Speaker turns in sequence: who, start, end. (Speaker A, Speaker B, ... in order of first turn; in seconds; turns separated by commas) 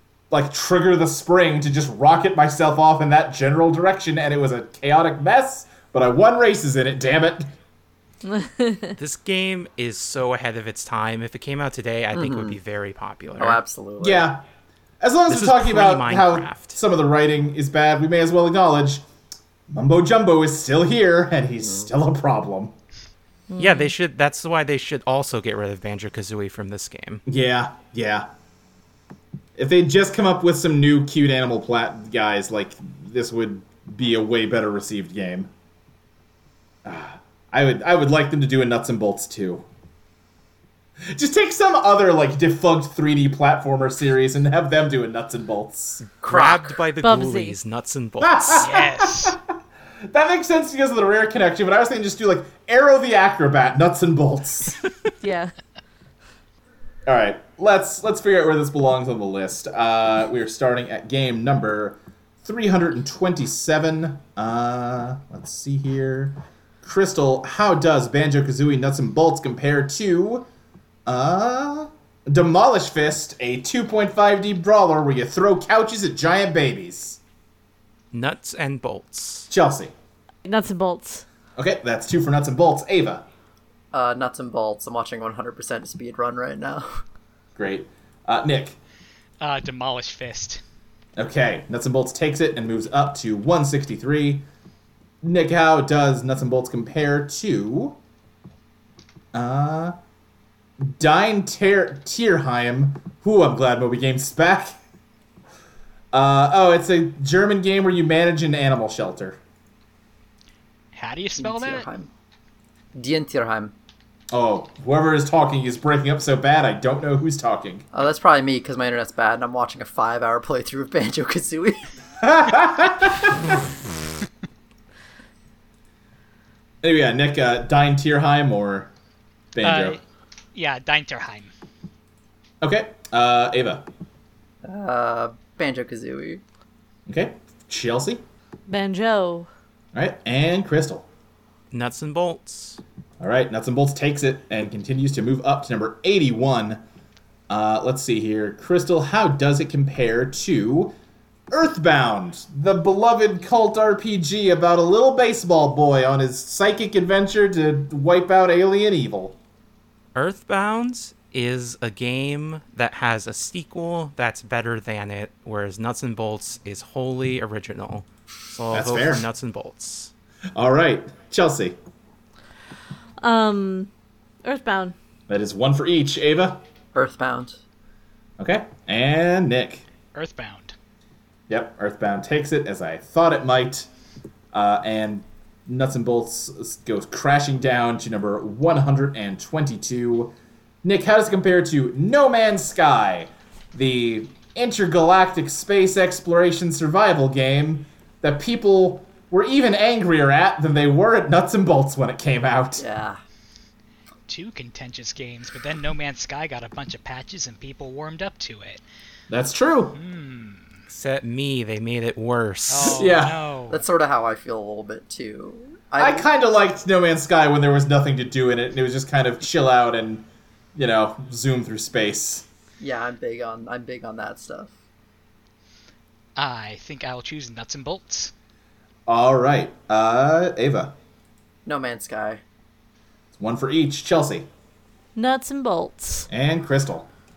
Speaker A: 0.3-7.5, Speaker B: 8.2-9.0, Speaker C: 9.0-13.6, Speaker D: 12.1-12.6, Speaker D: 13.4-14.3, Speaker A: 14.0-14.4, Speaker A: 15.0-19.0, Speaker C: 15.3-16.8, Speaker A: 19.7-22.7, Speaker D: 21.6-21.9, Speaker B: 23.5-23.9, Speaker C: 23.6-27.2, Speaker A: 27.3-28.3, Speaker A: 29.6-35.5, Speaker A: 36.9-39.7, Speaker A: 41.1-46.0, Speaker C: 46.0-48.8, Speaker D: 46.2-46.8, Speaker B: 47.0-47.6, Speaker A: 48.2-49.4, Speaker E: 48.6-49.4, Speaker A: 50.1-54.8, Speaker B: 55.2-55.5, Speaker A: 57.1-70.5, Speaker A: 71.1-77.2, Speaker C: 78.1-79.5, Speaker A: 79.5-79.9, Speaker B: 80.5-81.2, Speaker A: 81.6-83.2, Speaker D: 83.9-86.9, Speaker A: 87.6-88.8, Speaker E: 89.4-90.6, Speaker A: 91.2-94.5, Speaker A: 95.2-98.0, Speaker A: 99.3-100.0, Speaker A: 100.8-104.8, Speaker A: 106.1-109.4, Speaker E: 110.9-111.9, Speaker D: 111.4-112.1, Speaker D: 113.0-113.7, Speaker A: 114.3-117.9, Speaker D: 117.9-121.9, Speaker A: 122.2-123.5, Speaker A: 126.8-128.9, Speaker A: 129.5-130.0, Speaker E: 129.6-130.0, Speaker E: 130.6-131.5, Speaker A: 132.6-133.9, Speaker D: 134.7-136.4, Speaker A: 137.1-138.2, Speaker B: 138.7-139.5, Speaker A: 139.9-141.1, Speaker C: 141.7-142.8, Speaker A: 143.2-146.8, Speaker A: 147.5-150.9, Speaker A: 151.5-159.4, Speaker C: 160.2-170.1, Speaker A: 168.7-169.3, Speaker A: 170.6-171.8, Speaker B: 173.2-173.9, Speaker B: 174.4-175.0, Speaker A: 175.3-176.6, Speaker D: 176.9-177.6, Speaker A: 178.4-179.9, Speaker E: 180.1-180.8, Speaker A: 181.5-183.9, Speaker A: 184.5-202.8, Speaker D: 202.8-203.2, Speaker E: 204.3-208.8, Speaker A: 209.3-210.0, Speaker E: 209.9-210.8, Speaker C: 210.9-213.1, Speaker E: 212.7-213.8, Speaker A: 212.9-213.4, Speaker D: 213.7-216.3, Speaker A: 216.0-222.5, Speaker D: 222.8-224.8, Speaker E: 226.4-228.3, Speaker A: 229.1-230.9, Speaker D: 231.7-232.4, Speaker A: 233.3-234.5, Speaker B: 235.2-236.3, Speaker A: 236.3-237.1